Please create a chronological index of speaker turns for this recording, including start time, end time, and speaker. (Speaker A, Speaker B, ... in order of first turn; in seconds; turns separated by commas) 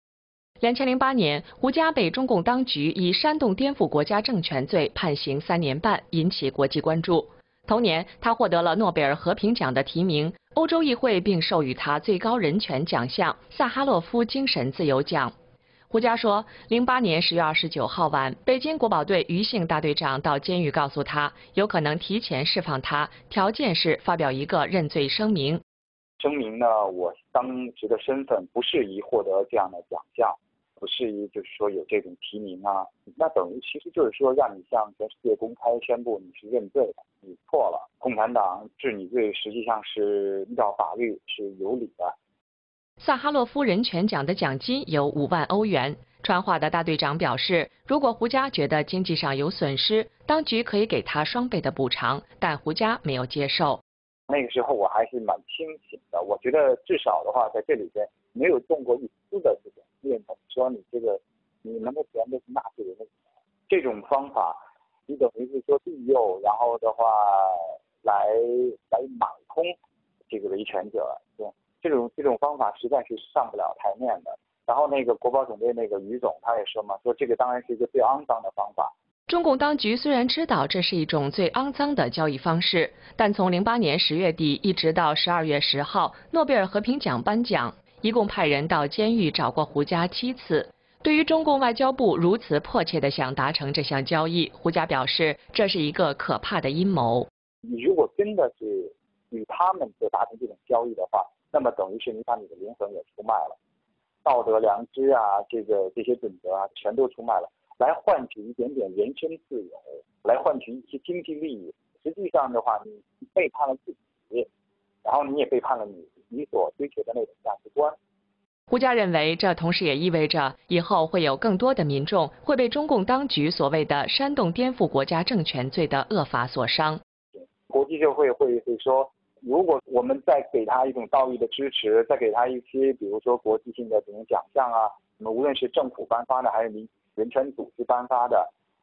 Speaker A: 0.6-15.3, Speaker A: 15.9-25.6, Speaker B: 26.2-42.1, Speaker A: 43.0-53.8, Speaker B: 54.3-63.1, Speaker B: 63.7-69.8, Speaker B: 70.3-78.9, Speaker A: 79.3-97.3, Speaker B: 97.6-103.6, Speaker B: 104.2-114.5, Speaker B: 115.0-118.0, Speaker A: 118.7-127.0, Speaker B: 127.4-138.5